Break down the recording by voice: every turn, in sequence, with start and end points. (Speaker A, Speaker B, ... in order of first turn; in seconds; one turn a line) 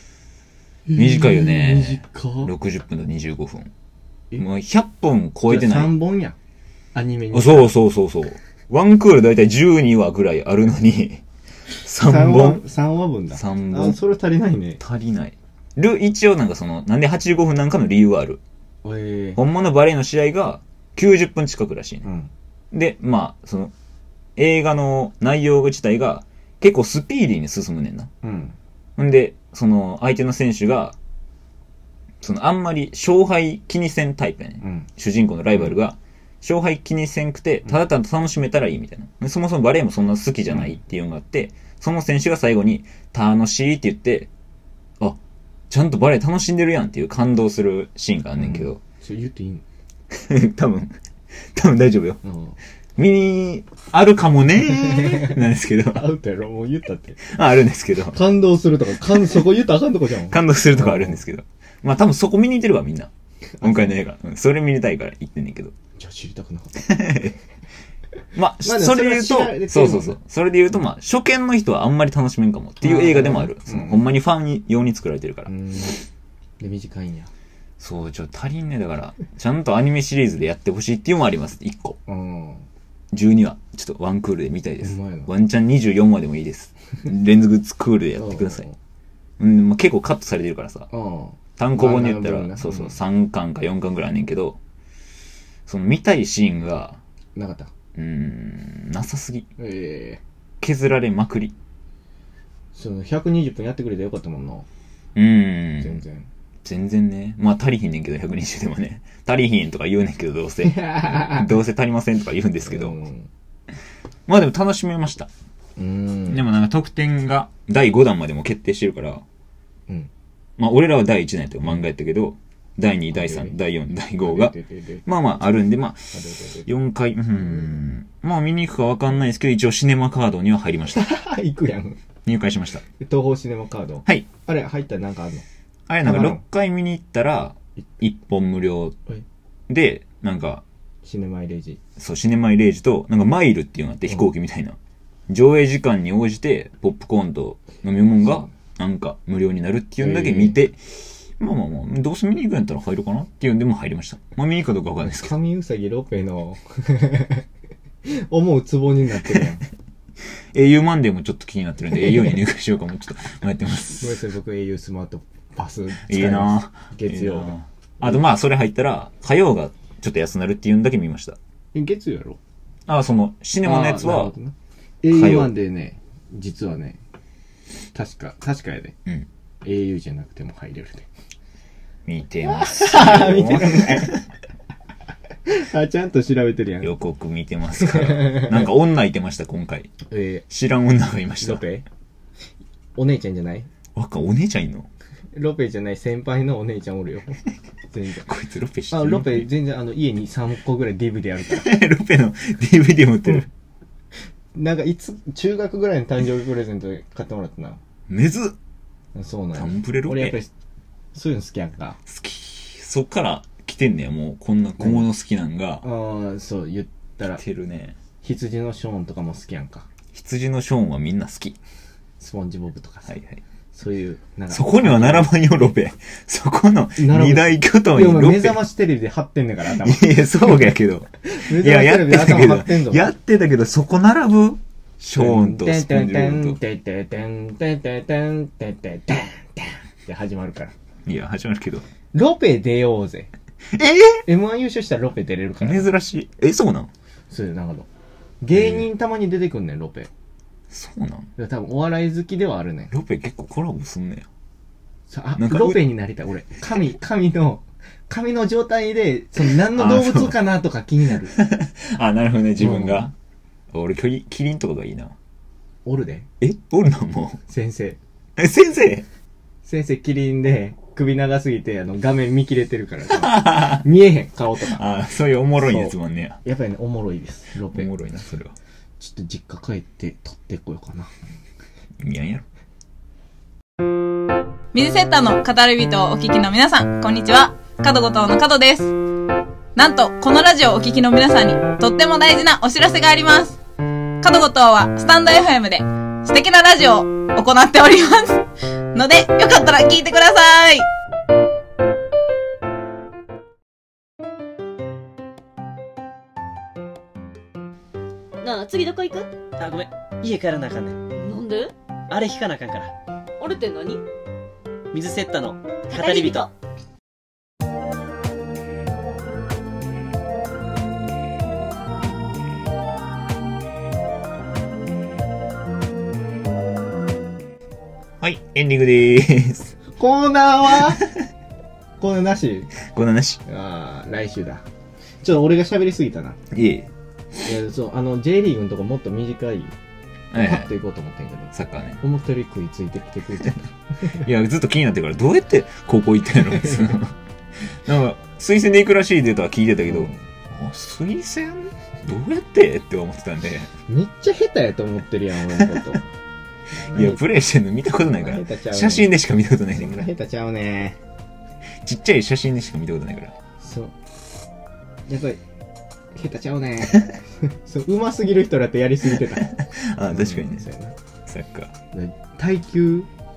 Speaker A: 0.9-2.5
Speaker B: 0.9-3.7
Speaker B: 4.4-5.9
Speaker A: 5.5-6.3
Speaker A: 6.9-7.7
Speaker B: 7.3-11.2
Speaker B: 11.8-12.6
Speaker A: 11.9-14.8
Speaker B: 13.3-14.0
Speaker B: 14.8-18.4
Speaker A: 18.8-19.4
Speaker B: 19.4-22.1
Speaker A: 22.0-22.3
Speaker B: 22.7-23.7
Speaker B: 24.4-28.1
Speaker A: 28.2-28.6
Speaker B: 29.0-30.9
Speaker B: 32.2-44.3
Speaker A: 34.6-34.9
Speaker B: 45.7-48.8
Speaker A: 48.4-49.6
Speaker B: 50.1-50.9
Speaker B: 51.5-52.2
Speaker A: 52.2-52.5
Speaker B: 53.0-56.0
Speaker A: 55.0-55.3
Speaker A: 55.9-57.3
Speaker B: 57.2-58.2
Speaker A: 58.1-61.2
Speaker B: 60.3-63.1
Speaker A: 63.6-64.0
Speaker B: 63.6-65.7
Speaker A: 66.0-67.3
Speaker B: 66.8-67.3
Speaker B: 68.3-75.5
Speaker A: 68.6-70.2
Speaker A: 72.8-74.0
Speaker A: 75.5-76.0
Speaker A: 76.6-77.3
Speaker B: 77.8-82.0
Speaker A: 82.0-82.7
Speaker B: 83.1-88.6
Speaker A: 84.8-85.3
Speaker A: 88.2-88.8
Speaker B: 89.4-90.9
Speaker A: 90.9-93.0
Speaker B: 91.6-94.6
Speaker B: 95.7-97.0
Speaker A: 97.3-97.7
Speaker B: 97.9-99.5
Speaker A: 99.6-100.2
Speaker B: 100.6-101.5
Speaker A: 102.7-104.7
Speaker B: 105.1-106.0
Speaker A: 105.8-106.3
Speaker B: 106.6-113.0
Speaker A: 110.6-111.5
Speaker A: 112.6-113.3
Speaker B: 114.3-115.3
Speaker A: 115.8-116.4
Speaker B: 116.3-119.2
Speaker B: 120.6-126.1
Speaker A: 123.1-123.5
Speaker A: 124.2-125.0
Speaker A: 126.1-126.7
Speaker B: 126.6-131.1
Speaker A: 130.9-132.0
Speaker B: 132.2-132.8
Speaker A: 133.0-135.4
Speaker B: 135.9-139.0
Speaker A: 136.0-136.4
Speaker B: 139.7-140.6
Speaker A: 141.0-141.8
Speaker B: 142.0-144.8
Speaker B: 145.3-155.3
Speaker A: 150.0-150.6
Speaker A: 155.0-157.4
Speaker A: 158.0-159.7
Speaker B: 160.5-164.2
Speaker A: 163.9-168.2
Speaker B: 166.1-171.4
Speaker A: 171.7-172.4
Speaker B: 172.9-174.3
Speaker A: 173.6-177.0
Speaker B: 175.1-175.5
Speaker A: 177.9-178.9
Speaker A: 179.6-181.1
Speaker B: 182.1-184.2
Speaker A: 182.4-184.2
Speaker A: 185.4-186.9
Speaker B: 186.8-189.9
Speaker A: 187.8-188.7
Speaker A: 190.1-190.4
Speaker B: 190.5-191.6
Speaker A: 191.4-191.8
Speaker A: 192.9-193.7
Speaker B: 193.9-194.9
Speaker A: 195.3-198.3
Speaker B: 198.2-199.5
Speaker A: 198.9-201.7
Speaker B: 201.5-203.5
Speaker A: 204.5-207.8
Speaker B: 208.1-208.6
Speaker A: 209.1-210.5
Speaker B: 209.5-210.4
Speaker A: 211.1-212.0
Speaker B: 212.1-215.8
Speaker A: 214.8-215.1
Speaker A: 215.8-217.4
Speaker B: 217.3-218.0
Speaker A: 218.2-219.9
Speaker B: 220.1-221.6
Speaker A: 222.2-223.2
Speaker B: 223.1-223.4
Speaker A: 223.7-225.3
Speaker B: 224.5-228.6
Speaker A: 227.0-233.1
Speaker B: 229.7-236.6
Speaker A: 235.1-240.7
Speaker B: 241.1-241.8
Speaker A: 242.1-243.3
Speaker B: 243.7-244.2
Speaker A: 244.2-245.9
Speaker B: 245.6-246.9
Speaker A: 247.3-247.9
Speaker A: 248.4-250.1
Speaker B: 248.5-248.8
Speaker B: 250.7-251.3
Speaker A: 251.4-252.9
Speaker B: 252.9-254.3
Speaker A: 255.1-261.3
Speaker B: 255.4-255.8
Speaker B: 259.5-260.4
Speaker B: 261.3-263.1
Speaker A: 262.6-263.1
Speaker B: 263.7-265.1
Speaker A: 265.9-266.3
Speaker B: 266.4-267.4
Speaker A: 267.5-268.0
Speaker B: 268.4-269.0
Speaker A: 269.6-274.8
Speaker B: 273.1-273.8
Speaker B: 274.6-276.4
Speaker A: 275.6-277.9
Speaker B: 277.7-278.5
Speaker A: 279.0-281.1
Speaker B: 282.0-282.4
Speaker C: 284.7-288.9
Speaker C: 289.8-293.6
Speaker C: 294.2-298.4
Speaker C: 298.9-300.9
Speaker D: 308.4-309.3
Speaker E: 309.6-311.0
Speaker D: 311.1-311.7
Speaker E: 312.1-312.9
Speaker D: 313.4-314.0
Speaker E: 314.9-316.5
Speaker D: 315.9-316.5
Speaker B: 328.2-329.7
Speaker A: 329.9-331.0
Speaker A: 332.0-332.7
Speaker B: 332.8-333.4
Speaker A: 333.4-334.6
Speaker A: 335.2-336.4
Speaker B: 336.5-336.9
Speaker A: 337.4-339.7
Speaker B: 340.3-340.7
Speaker A: 340.3-344.2
Speaker B: 341.5-342.0
Speaker B: 344.1-347.1
Speaker A: 346.5-346.9
Speaker B: 347.7-353.7
Speaker A: 349.9-350.2
Speaker A: 353.9-356.0
Speaker B: 355.5-355.9
Speaker A: 356.9-357.2
Speaker B: 356.9-360.1
Speaker A: 358.1-359.1
Speaker A: 359.7-361.0
Speaker B: 361.8-363.3
Speaker A: 363.6-363.9
Speaker A: 365.1-365.4
Speaker A: 366.1-369.5
Speaker B: 369.4-370.6
Speaker A: 370.1-370.9
Speaker B: 371.3-371.7
Speaker A: 371.9-373.1